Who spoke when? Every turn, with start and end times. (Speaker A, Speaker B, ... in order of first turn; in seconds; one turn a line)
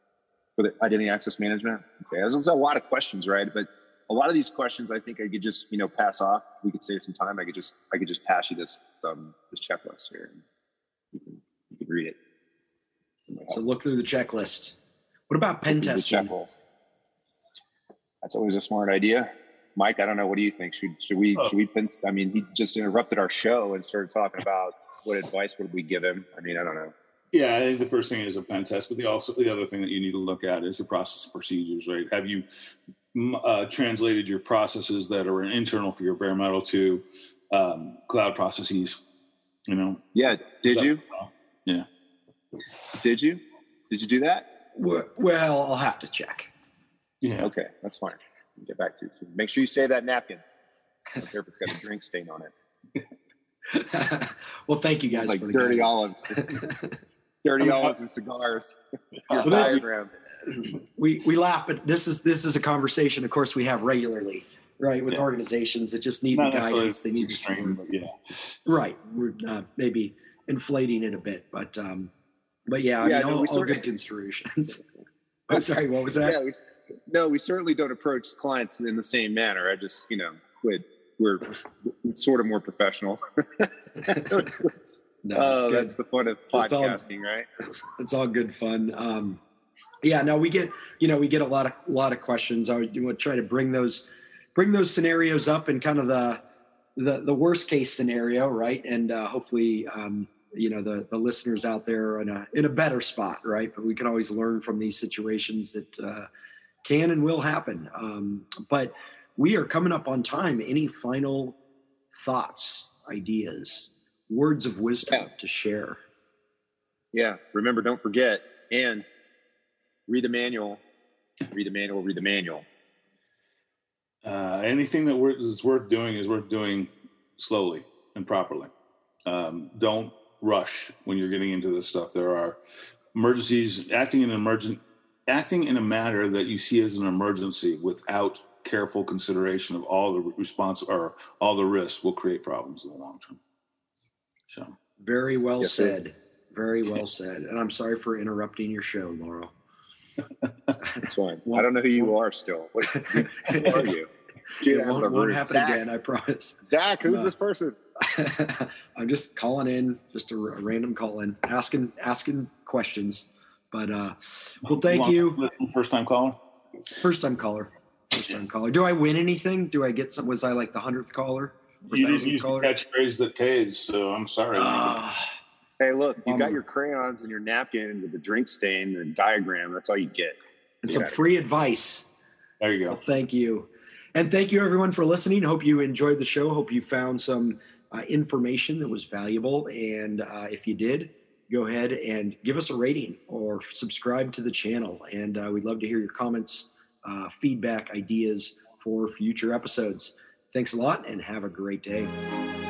Speaker A: 0.6-10.4
Speaker A: 11.1-12.2
Speaker B: 13.5-14.8
Speaker B: 15.3-16.3
Speaker A: 15.7-16.6
Speaker A: 18.2-26.9
Speaker C: 27.3-32.5
Speaker C: 33.1-39.0
Speaker C: 39.7-40.1
Speaker A: 40.1-41.0
Speaker C: 40.6-41.9
Speaker A: 43.0-44.5
Speaker B: 44.8-46.5
Speaker C: 47.2-47.5
Speaker A: 47.4-50.4
Speaker A: 51.2-52.5
Speaker B: 53.7-56.9
Speaker A: 55.1-56.4
Speaker A: 57.4-58.8
Speaker C: 57.6-57.9
Speaker C: 59.3-59.8
Speaker A: 59.3-60.1
Speaker B: 59.4-59.8
Speaker B: 60.5-67.8
Speaker C: 66.3-68.6
Speaker B: 68.7-72.1
Speaker B: 72.7-74.8
Speaker A: 73.0-73.9
Speaker B: 75.5-76.4
Speaker A: 76.2-84.7
Speaker B: 85.2-86.0
Speaker A: 85.3-87.5
Speaker B: 86.5-87.0
Speaker B: 88.0-89.4
Speaker B: 90.0-96.4
Speaker B: 97.0-106.3
Speaker B: 106.8-111.6
Speaker B: 112.1-116.0
Speaker A: 117.1-119.1
Speaker A: 120.1-120.8
Speaker A: 121.5-122.7
Speaker C: 124.2-128.7
Speaker C: 129.2-132.6
Speaker C: 133.1-143.4
Speaker C: 144.5-144.7
Speaker B: 145.0-149.5
Speaker A: 145.6-145.9
Speaker A: 151.0-155.9
Speaker B: 152.9-153.9
Speaker B: 154.6-157.3
Speaker A: 156.6-157.8
Speaker B: 158.0-165.4
Speaker C: 164.7-166.4
Speaker B: 167.0-172.7
Speaker C: 171.9-175.0
Speaker B: 174.5-175.2
Speaker A: 175.8-181.2
Speaker B: 176.3-176.6
Speaker B: 180.8-182.1
Speaker C: 182.6-183.0
Speaker B: 182.9-202.1